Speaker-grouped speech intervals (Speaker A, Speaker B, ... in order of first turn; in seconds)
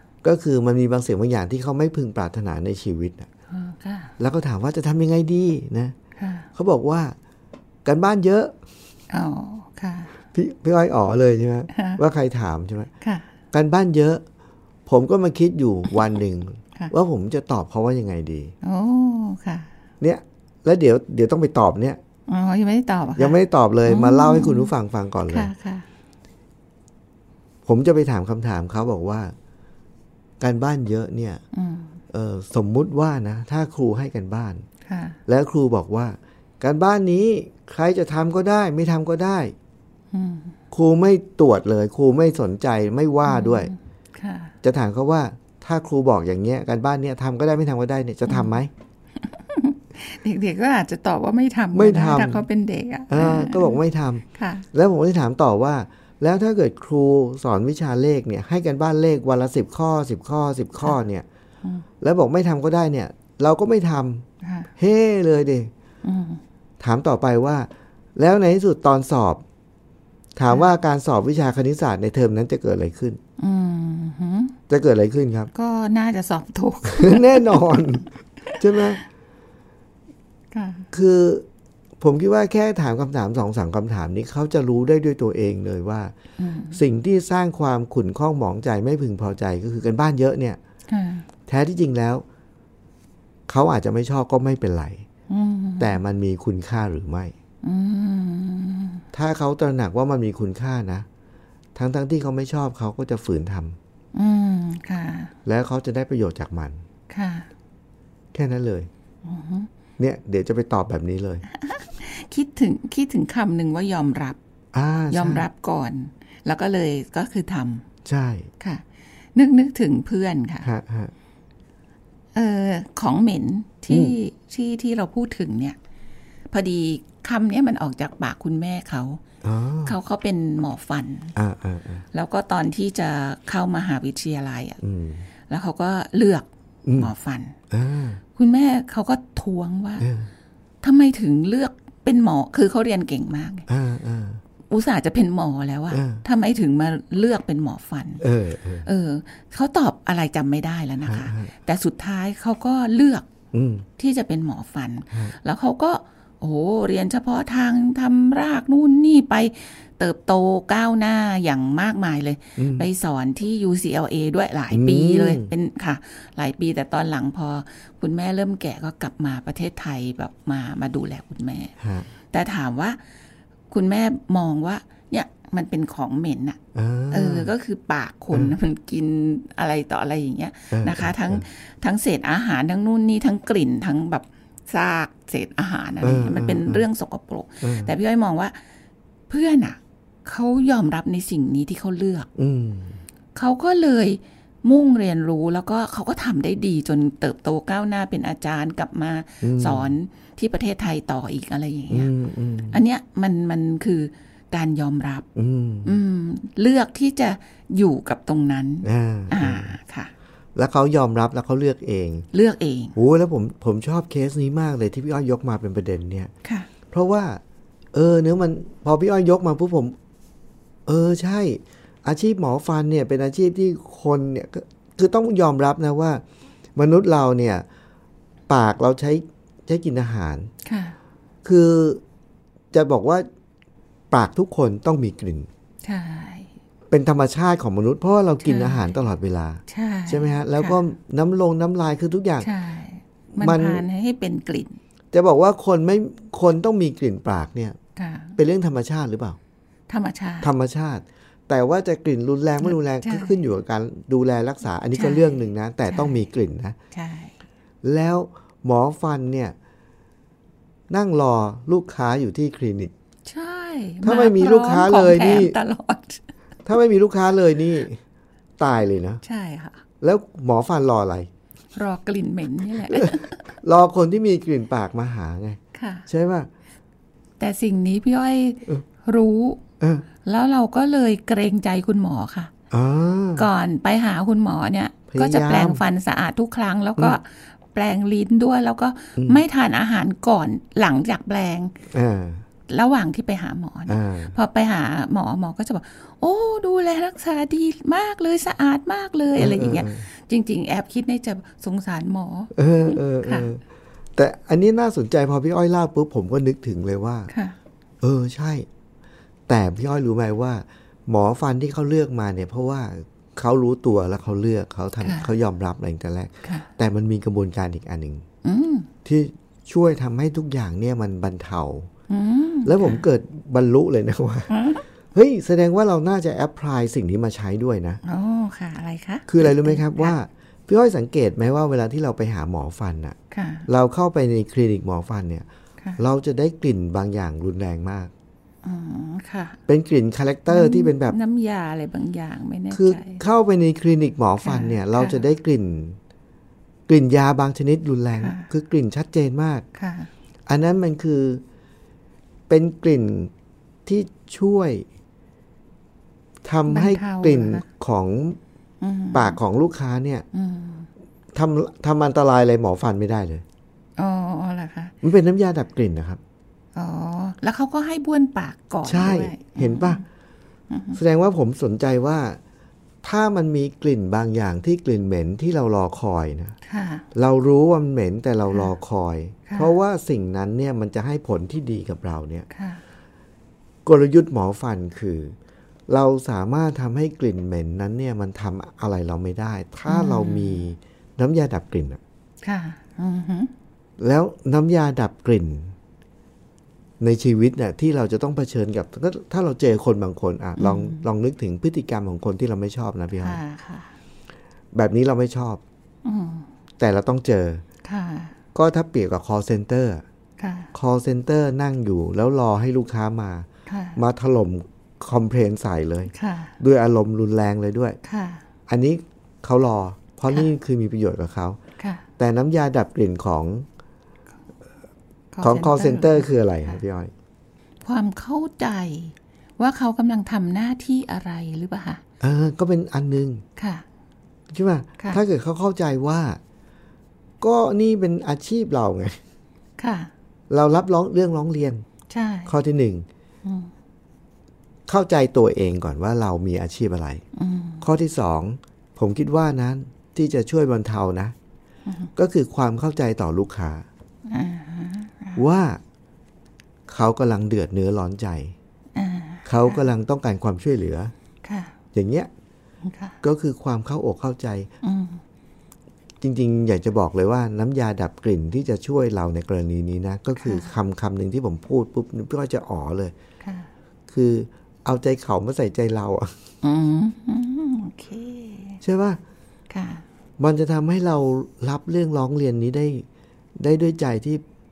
Speaker A: 0.2-3.3, 4.2-6.0, 6.5-7.2, 7.8-8.6, 10.3-12.9, 13.5-14.2, 14.9-18.5, 20.0-22.0, 23.2-25.5, 27.7-29.4, 30.4-31.4, 32.1-34.6, 35.3-39.5, 40.7-43.7, 44.6-48.7, 51.7-52.4, 53.1-61.3, 62.0-64.3, 64.8-65.7, 66.8-69.4, 70.4-73.2, 74.7-75.5, 76.9-79.0, 80.9-81.5, 82.0-86.1, 86.7-90.6, 91.5-92.2, 93.5-95.1, 95.8-97.3, 99.1-101.1, 101.8-103.8, 105.5-106.8, 108.3-108.9, 110.0-111.5, 114.7-115.5, 118.0-118.5, 120.6-121.1, 123.9-124.1, 129.4-130.0, 131.4-132.1, 134.8-135.2, 136.9-137.1, 137.7-138.2, 140.0-140.3, 143.7-144.4, 145.9-146.2, 148.2-148.9, 151.1-151.5, 153.5-153.9, 162.6-162.9, 164.7-165.5, 171.8-172.1, 176.8-177.5, 180.7-181.4, 186.0-186.8, 187.6-187.9, 192.4-193.0, 199.4-199.9, 201.9-202.8, 205.3-206.0, 208.8-209.8, 210.6-212.3, 212.9-216.3, 216.9-217.4, 217.9-220.0, 220.9-226.2, 226.8-227.7, 228.5-230.5, 231.4-232.0, 232.7-233.3, 234.1-235.5, 236.9-242.5, 243.4-243.8, 245.1-247.8, 248.4-249.4, 250.4-256.8, 257.8-259.6, 260.9-262.9, 264.0-265.6, 266.7-268.0, 268.6-269.2, 270.0-271.3, 272.9-276.5, 279.8-280.1, 282.7-283.5, 285.1-285.8, 289.2-289.4, 291.9-292.4, 293.9-294.4, 299.4-300.1, 302.6-303.6, 304.1-307.3, 308.0-308.7, 309.5-318.2, 319.1-321.9, 322.6-328.0, 329.3-333.2, 333.7-335.5, 336.0-338.1, 339.7-341.2, 342.7-346.0, 346.9-349.6, 350.5-351.4, 352.5-353.3, 353.9-354.9, 356.4-358.4, 359.1-360.3, 361.3-363.4, 365.0-366.2, 368.9-370.0, 370.9-372.4, 373.0-376.6, 377.1-382.5, 383.9-385.4, 385.9-392.0, 394.0-395.8, 397.0-403.4, 404.7-405.6, 406.8-407.6, 408.5-410.0, 410.8-418.0, 418.7-421.6, 422.2-423.7, 425.4-427.1, 432.2-433.4, 434.5-436.4, 437.4-439.2, 440.5-441.8, 442.5-443.1, 444.9-447.2, 447.8-451.3, 452.2-453.9, 455.4-455.8, 456.9-458.6, 459.4-461.1, 461.9-462.3, 463.2-464.7, 466.2-473.1, 474.1-476.3, 478.8-479.2, 480.4-484.4
Speaker B: 3.5-4.1, 6.2-6.5, 9.1-10.1, 11.7-12.0, 13.0-13.3, 18.6-19.7, 22.3-24.7, 25.3-25.9, 31.5-32.0, 34.9-35.2, 40.1-40.6, 43.3-44.5, 48.3-48.6, 49.2-53.8, 54.3-54.7, 64.4-64.7, 66.0-66.4, 73.4-74.6, 75.5-79.0, 80.5-80.9, 86.4-86.8, 90.9-91.3, 95.3-96.0, 97.6-99.0, 104.1-105.3, 107.1-107.5, 109.2-109.7, 111.5-114.4, 115.1-117.8, 119.3-120.7, 122.3-125.8, 126.5-129.2, 129.8-131.3, 132.1-134.8, 135.5-137.6, 138.3-140.1, 140.8-143.7, 144.7-148.2, 148.8-153.3, 154.0-171.7, 172.3-173.0, 173.7-176.6, 177.1-188.6, 189.3-192.3, 193.3-202.1, 202.7-205.3, 205.8-210.1, 212.3-213.0, 230.7-231.0, 235.8-236.5, 238.4-238.9, 239.7-240.8, 242.4-244.8, 248.0-248.4, 249.9-250.5, 252.6-253.4, 254.9-256.2, 256.9-257.4, 263.3-266.2, 269.2-269.8, 271.8-273.5, 275.7-276.1, 277.4-279.6, 280.2-282.5, 283.4-291.8, 292.7-303.5, 307.3-307.6, 315.0-315.3, 318.4-318.9, 322.1-323.0, 324.5-324.8, 328.1-330.2, 333.3-333.7, 338.6-339.6, 340.5-343.2, 344.4-345.2, 348.2-348.5, 349.8-350.1, 356.7-357.6, 358.8-359.4, 360.3-360.9, 364.0-364.9, 366.8-370.0, 370.7-371.0, 376.6-377.1, 379.5-379.8, 382.5-382.8, 389.9-390.6, 392.4-393.5, 400.6-401.1, 403.2-403.9, 406.1-406.5, 407.9-408.4, 410.4-410.7, 413.7-414.0, 416.1-416.6, 418.0-418.4, 421.8-422.0, 425.3-426.8, 427.8-432.0, 433.6-433.9, 439.8-440.1, 442.1-442.5, 443.4-443.7, 447.4-447.9, 454.3-455.4, 459.0-459.9, 461.4-461.7, 462.9-463.2, 464.8-465.2, 470.4-470.7, 473.4-473.7, 476.6-478.8, 479.7-480.0